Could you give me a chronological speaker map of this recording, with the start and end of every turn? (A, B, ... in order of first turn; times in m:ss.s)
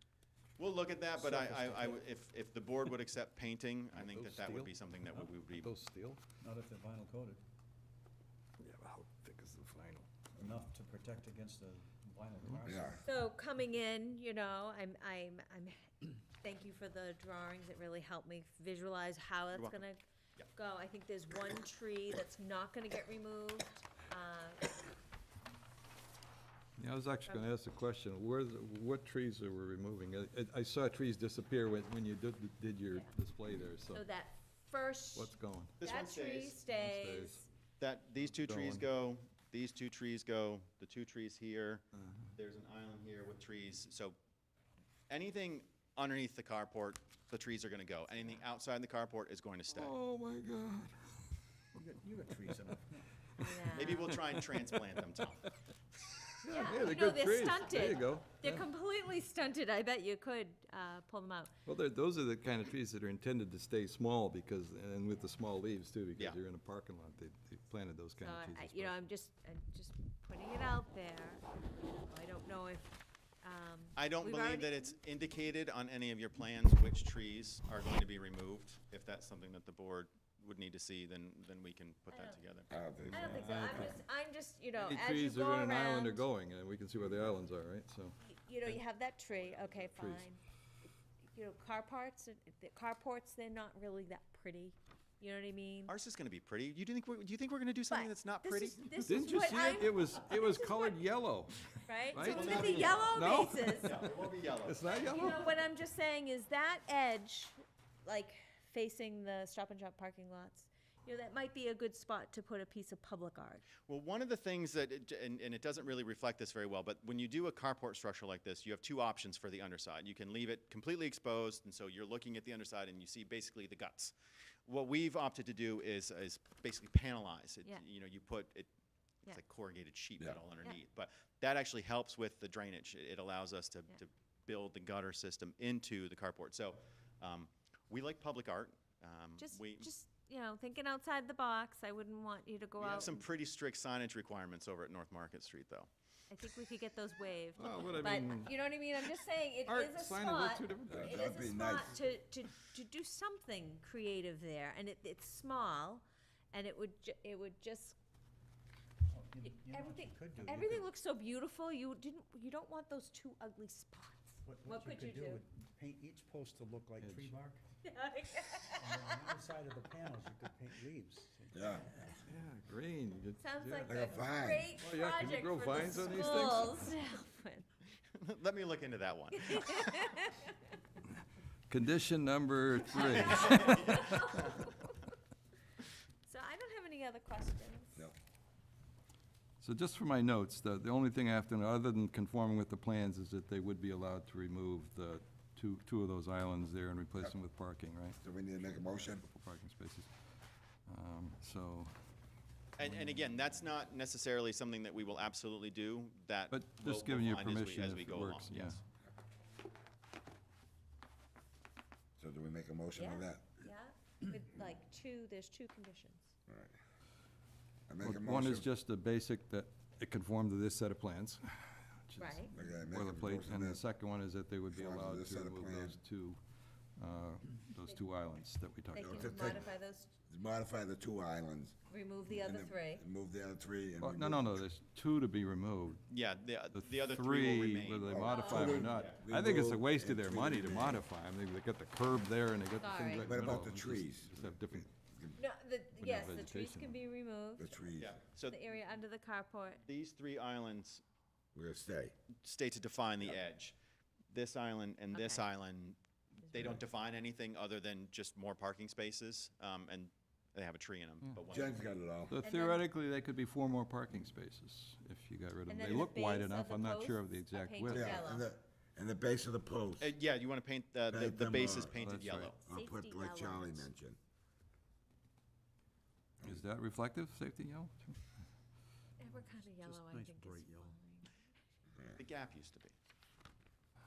0:00.6-0:05.7 A
0:01.2-0:02.0 B
0:03.9-0:04.7 C
0:05.5-0:06.2 C
0:06.4-0:07.4 B
0:08.6-0:10.1 C
0:10.3-0:13.1 B
0:12.7-0:13.0 D
0:13.0-0:20.0 E
0:19.5-0:19.8 A
0:20.5-0:24.8 E
0:26.8-0:34.1 C
0:33.8-0:37.5 E
0:35.1-0:35.8 C
0:35.8-0:36.6 A
0:36.6-0:37.4 C
0:37.8-0:41.8 A
0:38.2-0:38.9 C
0:42.0-0:42.3 C
0:42.3-0:44.2 A
0:45.1-0:49.9 A
0:49.7-0:51.2 C
0:51.7-0:53.1 B
0:53.4-0:54.8 C
0:53.4-0:54.1 E
0:53.7-0:55.5 A
0:56.1-0:58.6 C
0:56.5-1:01.5 E
1:01.6-1:09.0 C
1:08.2-1:15.0 E
1:14.0-1:22.7 A
1:22.1-1:22.4 E
1:22.7-1:23.8 D
1:23.1-1:26.2 E
1:23.2-1:24.0 C
1:24.8-1:28.2 C
1:28.2-1:30.4 E
1:29.4-1:30.3 C
1:31.3-1:35.9 E
1:35.9-1:39.2 A
1:37.9-1:41.0 E
1:39.0-1:45.5 C
1:41.9-1:44.0 E
1:42.1-1:43.2 A
1:43.8-1:44.9 A
1:44.8-1:53.7 E
1:53.8-2:04.1 A
2:04.7-2:08.7 A
2:09.2-2:19.9 A
2:19.4-2:23.3 E
2:22.8-2:25.9 A
2:26.3-2:38.0 E
2:27.5-2:31.3 C
2:30.9-2:31.9 D
2:39.1-2:40.9 B
2:39.6-2:45.4 E
2:44.4-2:47.6 B
2:47.0-2:47.3 C
2:47.8-2:49.1 E
2:48.6-2:52.2 B
2:51.5-2:51.8 D
2:52.3-2:54.0 C
2:53.4-2:57.7 E
2:53.8-2:54.7 D
2:54.7-2:56.9 C
2:58.2-3:00.1 A
2:59.3-3:00.7 E
3:01.7-3:04.5 C
3:02.9-3:05.0 E
3:03.5-3:03.8 A
3:06.2-3:08.0 E
3:09.6-3:20.1 C
3:18.2-3:19.2 D
3:20.9-3:21.9 C
3:22.8-3:28.8 A
3:26.5-3:28.8 C
3:32.2-3:33.5 D
3:32.9-3:36.3 E
3:36.5-3:36.8 D
3:37.9-3:38.7 D
3:38.0-3:46.4 C
3:42.2-3:42.5 E
3:42.5-3:43.8 D
3:44.7-3:46.0 D
3:47.0-3:49.2 C
3:48.9-3:50.1 E
3:49.0-3:49.7 D
3:50.3-3:51.8 D
3:51.9-3:53.0 E
3:52.3-3:54.6 D
3:54.0-3:56.0 C
3:56.1-3:59.2 A
3:56.7-4:04.9 C
3:58.1-4:01.0 D
3:58.2-3:59.1 E
4:02.8-4:03.3 E
4:03.2-4:05.4 D
4:05.4-4:07.7 E
4:06.0-4:07.0 C
4:07.6-4:08.2 D
4:08.0-4:08.6 A
4:08.5-4:09.8 E
4:09.8-4:11.0 A
4:11.6-4:12.2 D
4:12.4-4:13.8 A
4:14.3-4:21.9 A
4:15.1-4:15.4 E
4:16.5-4:16.7 E
4:21.5-4:22.4 D
4:22.3-4:28.2 C
4:22.4-4:22.8 E
4:25.7-4:28.5 E
4:27.9-4:30.1 D
4:30.0-4:32.6 A
4:31.1-4:31.9 D
4:31.9-4:32.6 C
4:32.7-4:34.2 D
4:32.7-4:33.9 E
4:36.4-4:38.2 C
4:39.2-4:41.4 E
4:39.2-4:41.0 B
4:42.2-4:42.9 A